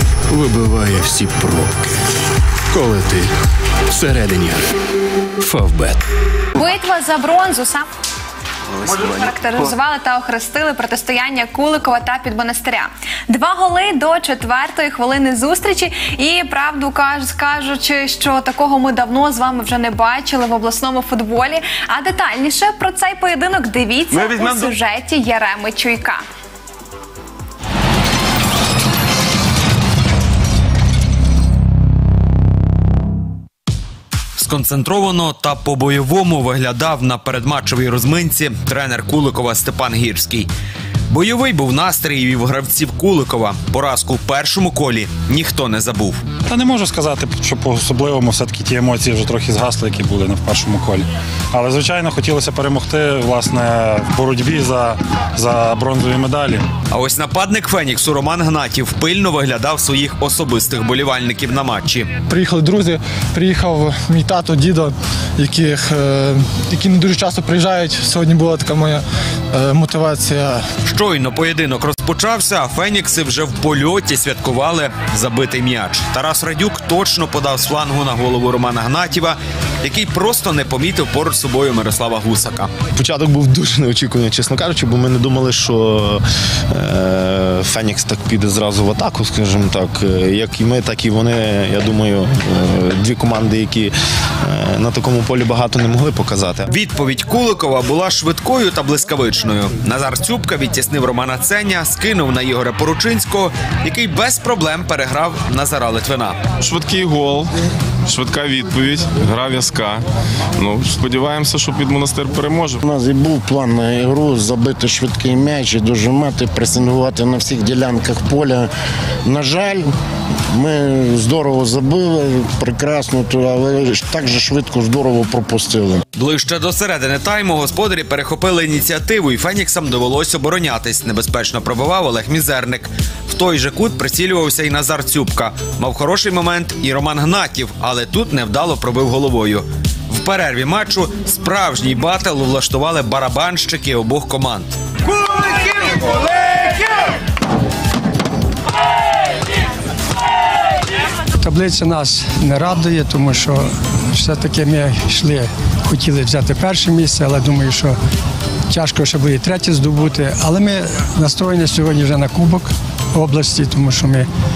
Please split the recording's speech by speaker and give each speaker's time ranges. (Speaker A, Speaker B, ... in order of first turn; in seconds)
Speaker A: 0.3-2.0, 2.7-3.3, 3.9-4.7, 5.4-6.0
Speaker B: 6.5-7.9, 8.8-26.2
Speaker C: 34.4-40.5, 41.1-46.2, 56.9-62.1, 70.8-82.7, 96.7-106.4, 126.2-146.1
Speaker D: 46.5-56.7
Speaker E: 62.3-69.0, 69.5-70.6
Speaker F: 83.0-96.7
Speaker G: 106.6-107.5, 108.1-110.0, 110.6-112.8
Speaker H: 112.8-118.7, 119.2-119.9, 120.5-126.0
Speaker I: 151.4-158.0, 158.7-164.3